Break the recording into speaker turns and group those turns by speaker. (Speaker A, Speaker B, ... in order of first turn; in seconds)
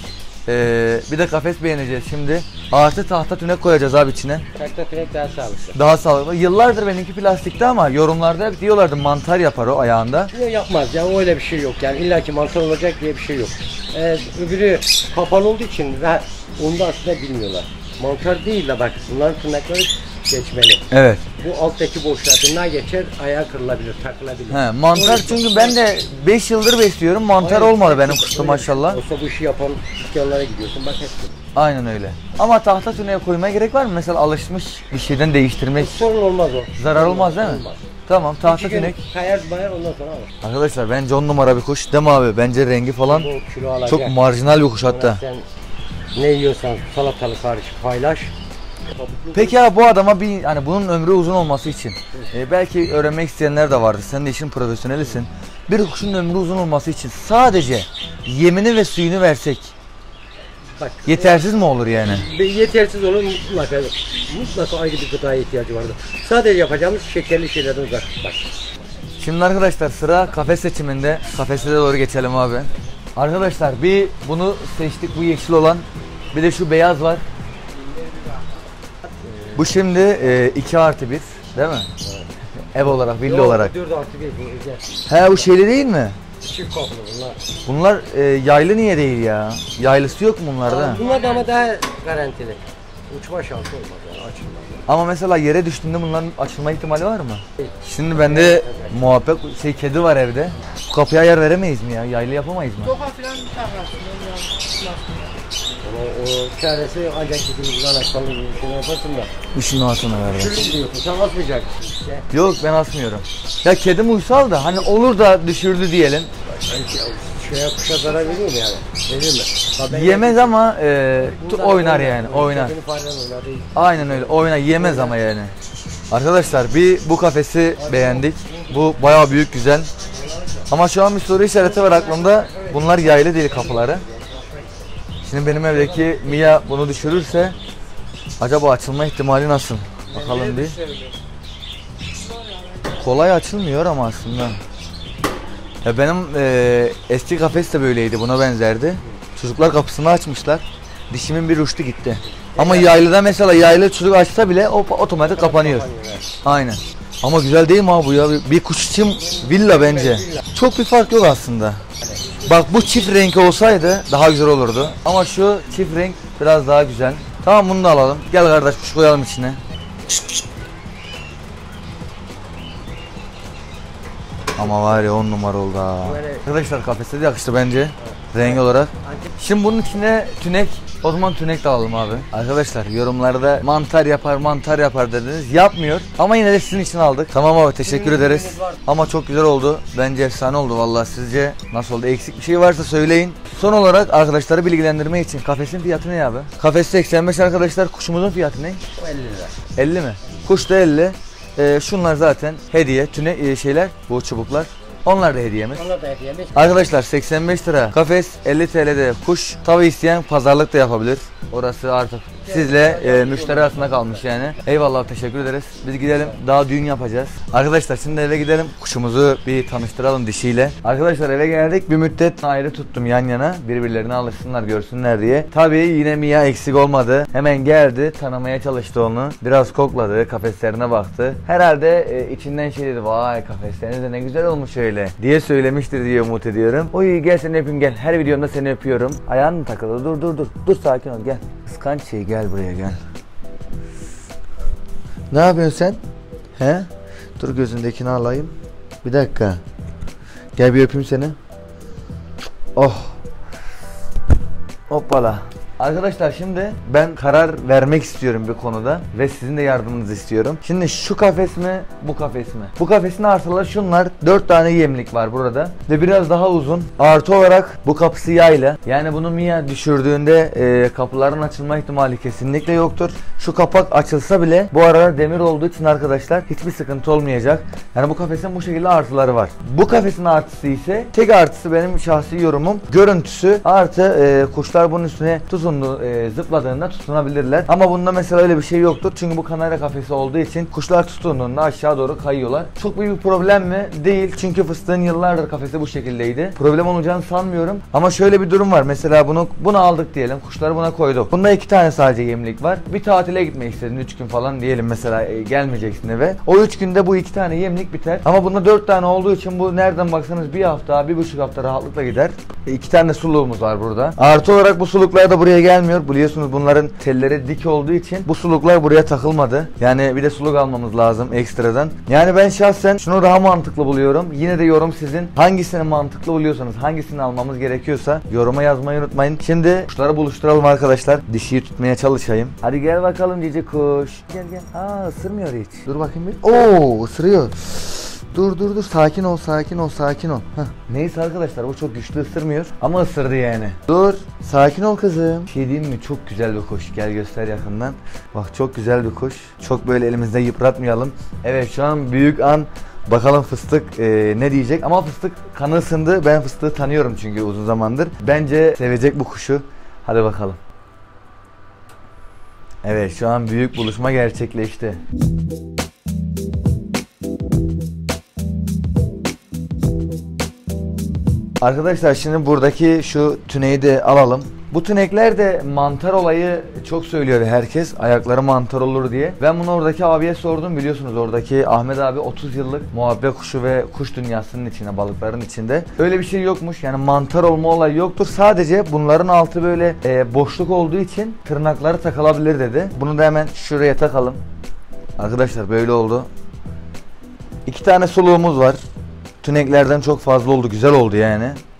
Speaker A: 0.5-4.4, 5.7-10.3, 20.9-21.2, 24.5-29.0, 31.5-36.0, 36.8-39.0, 40.4-43.3, 43.9-45.2, 49.3-59.7, 61.0-62.3, 69.2-77.2, 79.5-81.9, 82.7-83.7, 85.1-86.2, 87.7-91.0, 94.9-103.1, 109.5-110.6, 112.3-116.3, 119.9-122.7, 123.7-125.5, 126.1-129.9, 130.7-134.0, 135.2-137.5, 138.4-140.8, 142.8-144.6, 145.8-155.8, 156.4-161.8, 162.4-169.6, 174.6-198.8, 199.8-205.9, 206.5-243.0, 245.3-246.0, 246.6-249.6, 250.6-251.3, 252.7-253.2, 254.9-360.6, 362.8-365.0, 371.6-394.4, 395.2-396.3, 397.6-398.8, 399.4-401.6
Speaker B: 4.5-5.8, 10.3-25.8, 27.4-31.4, 35.8-37.9, 38.4-40.3, 43.1-44.2, 44.8-45.5, 46.1-48.3, 48.9-49.6, 60.8-61.5, 62.0-68.5, 79.2-80.2, 82.0-82.3, 83.1-85.5, 86.4-87.4, 90.6-94.8, 97.6-99.2, 105.8-109.3, 110.2-112.3, 116.5-120.6, 121.2-125.2, 127.8-128.9, 130.1-130.7, 131.7-134.7, 135.6-137.5, 152.3-153.0, 155.2-156.3, 159.3-160.4, 162.1-162.4, 174.6-175.0, 176.0-176.4, 178.0-179.4, 187.8-188.8, 199.0-199.5, 205.7-206.9, 212.4-214.3, 216.1-216.4
Speaker C: 103.1-105.2